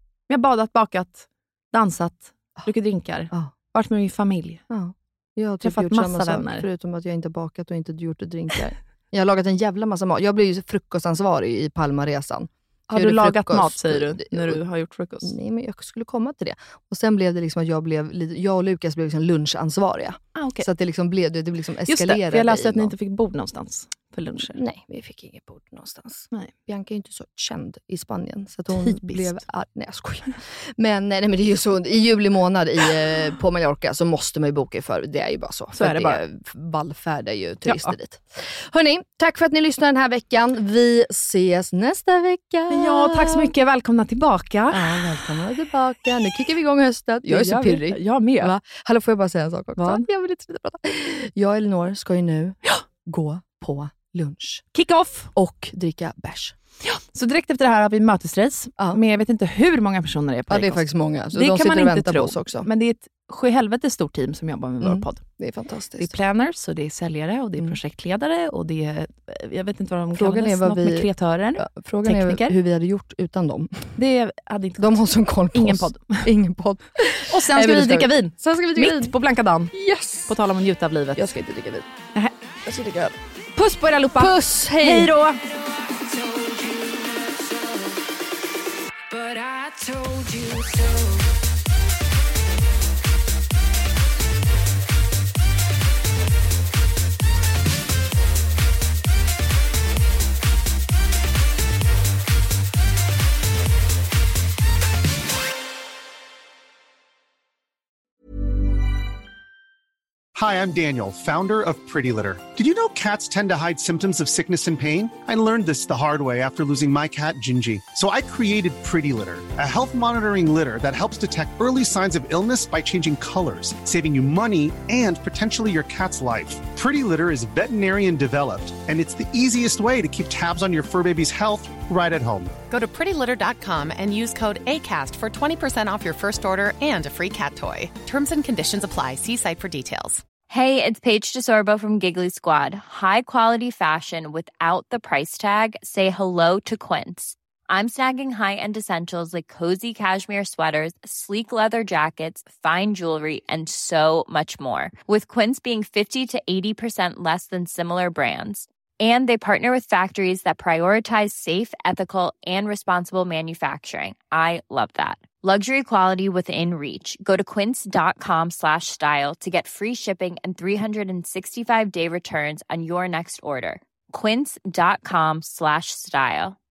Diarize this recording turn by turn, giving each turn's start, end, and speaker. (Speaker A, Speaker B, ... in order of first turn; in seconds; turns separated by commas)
Speaker A: 0.3-4.6, Speaker B: 4.7-14.6, Speaker A: 5.6-6.7, Speaker A: 12.9-15.3, Speaker B: 15.2-22.9, Speaker A: 20.3-20.7, Speaker A: 21.9-24.6, Speaker B: 24.5-43.5, Speaker A: 28.7-29.4, Speaker A: 35.7-36.2, Speaker A: 37.6-37.9, Speaker A: 42.7-45.2, Speaker B: 44.7-54.6, Speaker A: 47.2-48.5, Speaker A: 49.8-50.0, Speaker A: 54.7-55.3, Speaker B: 55.3-56.5, Speaker A: 56.8-65.2, Speaker B: 60.5-62.7, Speaker B: 64.8-66.1, Speaker A: 66.0-72.5, Speaker B: 70.1-73.9, Speaker A: 74.0-76.3, Speaker B: 74.8-79.2, Speaker A: 77.2-79.7, Speaker B: 79.7-80.3, Speaker A: 80.3-81.3, Speaker B: 81.1-81.9, Speaker A: 82.1-85.4, Speaker B: 82.7-83.1, Speaker B: 84.2-85.1, Speaker C: 110.3-132.5, Speaker D: 132.7-140.2, Speaker E: 140.5-176.6